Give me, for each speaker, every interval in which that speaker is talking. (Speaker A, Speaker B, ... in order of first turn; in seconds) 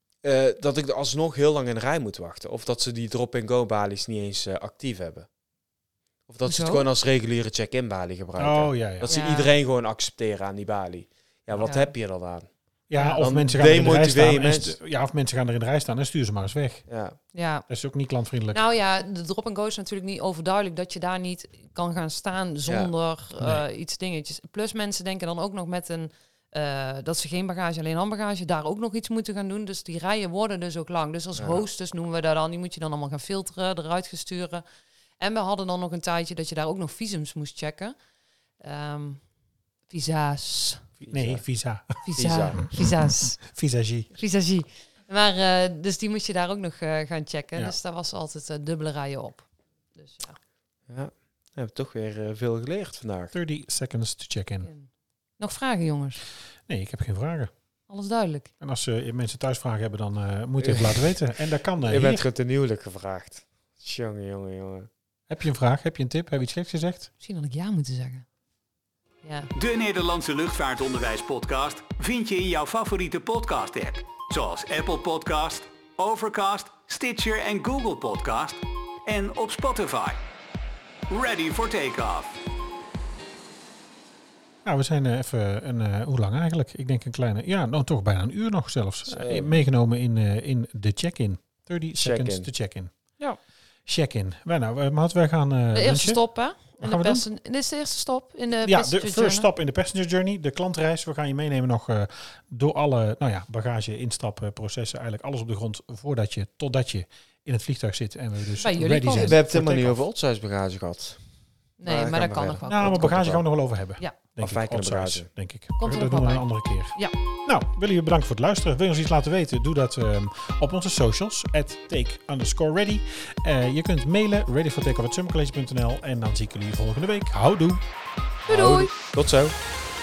Speaker A: 0.2-5.3, 6.3-12.5, 13.2-14.8, 16.9-17.2, 22.7-22.9, 31.4-31.6, 41.0-41.4, 42.2-42.6, 50.9-53.3, 60.6-61.1, 61.8-64.9, 89.1-89.6, 92.0-92.5, 109.1-111.2, 111.8-113.4, 114.4-115.3, 128.5-129.5
Speaker B: 6.5-6.9, 9.1-9.5, 12.9-13.2, 17.3-17.7, 18.5-34.6, 35.2-38.0, 38.6-39.2, 39.9-40.9, 42.0-43.4, 44.1-50.4, 55.4-56.2, 57.9-58.5, 67.2-68.2, 69.2-69.5, 95.7-99.5, 108.6-109.4, 111.8-113.2, 115.8-117.1, 128.5-128.9
Speaker C: 8.4-9.1, 12.9-16.9, 17.7-18.6, 41.1-42.0, 43.4-44.1, 53.3-54.7, 56.7-57.5, 58.6-62.2, 65.3-67.1, 84.7-92.9, 93.9-96.2, 96.8-97.2, 98.6-110.0, 112.7-127.8
Speaker D: 69.5-80.2, 81.1-82.4